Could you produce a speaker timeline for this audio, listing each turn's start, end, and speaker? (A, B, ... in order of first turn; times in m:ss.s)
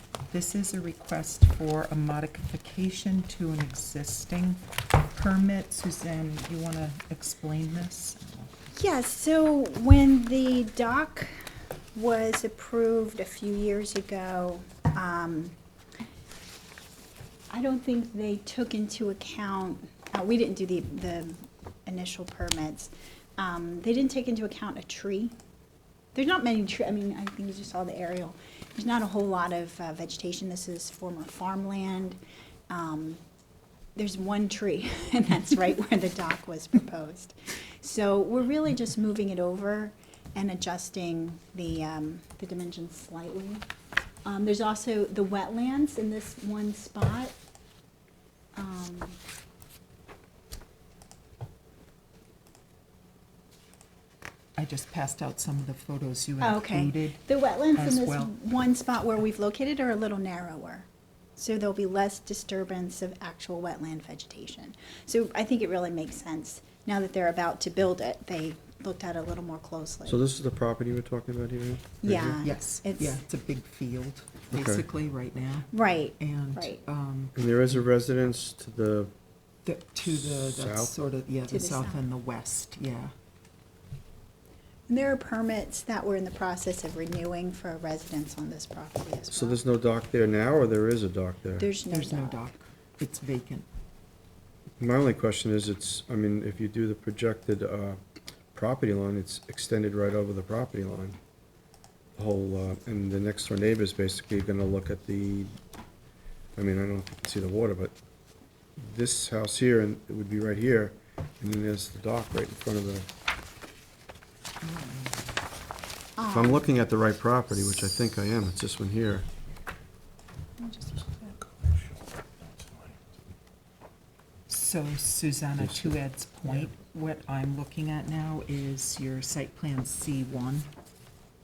0:00.3-0:08.5 A
0:08.7-0:11.3 B
0:12.0-0:15.6 B
0:17.5-0:25.4 B
0:26.1-0:32.2 B
0:32.7-0:33.2 B
0:34.0-0:43.6 B
0:44.2-0:47.3 B
0:48.6-0:49.2 B
0:54.6-0:57.2 A
0:56.4-1:10.2 B
0:57.7-0:58.3 A
1:10.1-1:12.4 C
1:12.0-1:13.2 B
1:12.4-1:17.4 A
1:14.5-1:14.8 C
1:15.7-1:16.8 B
1:17.4-1:19.1 C
1:19.6-1:23.1 A
1:20.0-1:20.9 C
1:21.5-1:22.0 B
1:24.9-1:29.6 B
1:29.3-1:31.7 C
1:31.6-1:32.5 B
1:31.9-1:33.7 A
1:34.8-1:38.0 C
1:38.6-1:41.2 C
1:42.2-1:45.5 C
1:46.6-1:47.9 C
1:48.8-1:53.1 C
1:54.6-1:55.1 A
1:56.2-1:56.7 B
1:56.3-1:59.3 C
2:00.6-2:01.4 B
2:04.5-2:10.7 A
2:05.6-2:06.7 C